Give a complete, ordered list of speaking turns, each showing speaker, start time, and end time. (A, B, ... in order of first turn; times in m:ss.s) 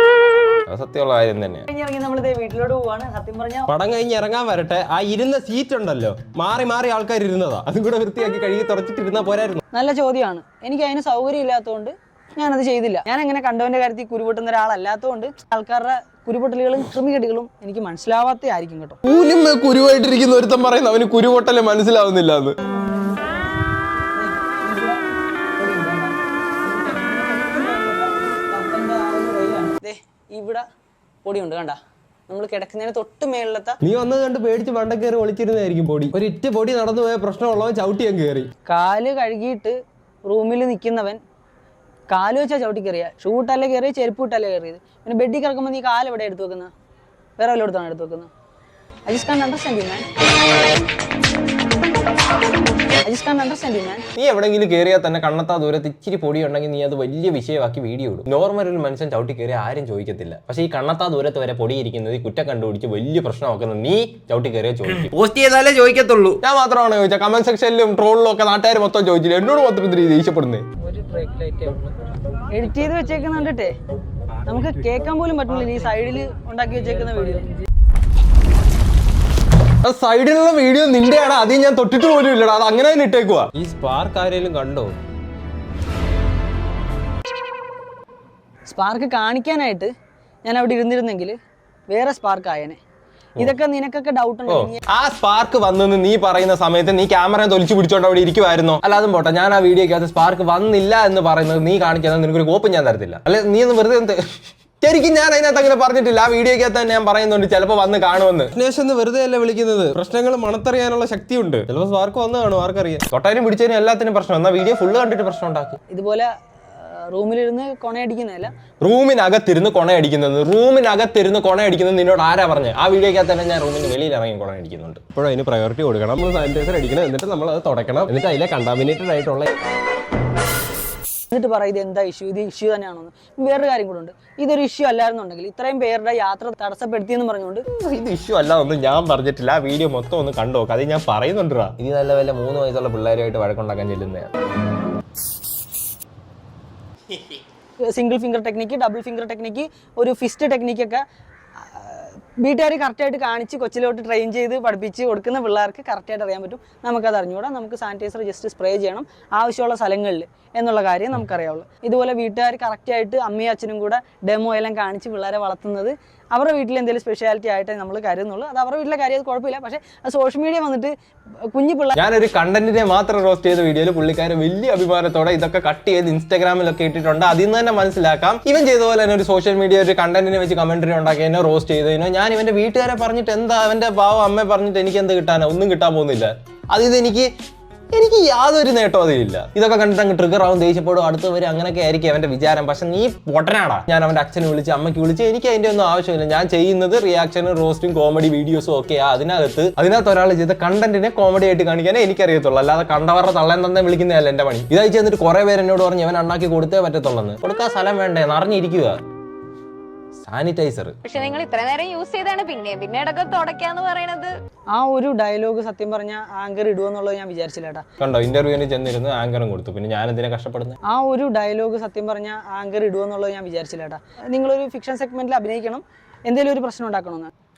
0:00.7-0:01.7 A
0:01.7-0:03.7 B
0:03.7-0:09.6 A
0:09.7-0:19.0 B
0:19.0-0:22.6 A
0:22.6-0:23.4 B
0:24.2-0:25.0 B
0:25.6-0:30.6 B
0:31.2-0:33.8 B
0:33.8-0:38.5 A
0:38.6-0:41.2 B
0:42.1-0:46.7 B
0:47.4-0:48.3 B
0:49.1-0:50.0 B
0:53.0-0:54.0 B
0:54.2-1:10.6 A
1:10.8-1:11.9 B
1:12.5-1:13.7 B
1:14.4-1:17.5 B
1:19.8-1:24.9 A
1:28.6-1:29.9 B
1:30.4-1:31.4 B
1:31.9-1:32.8 B
1:33.4-1:34.8 B
1:34.5-1:55.8 A
1:55.9-1:58.5 B
1:58.8-2:09.5 A
2:11.3-2:17.6 B
2:17.7-2:24.3 A
2:27.9-2:31.0 B
2:31.6-2:50.9 B
2:51.5-2:52.0 B
2:51.9-3:07.3 A
3:07.9-3:29.0 A
3:30.2-3:31.0 A
3:31.0-3:34.3 C
3:34.7-3:37.8 B
3:38.0-3:40.8 A
3:40.8-3:47.3 B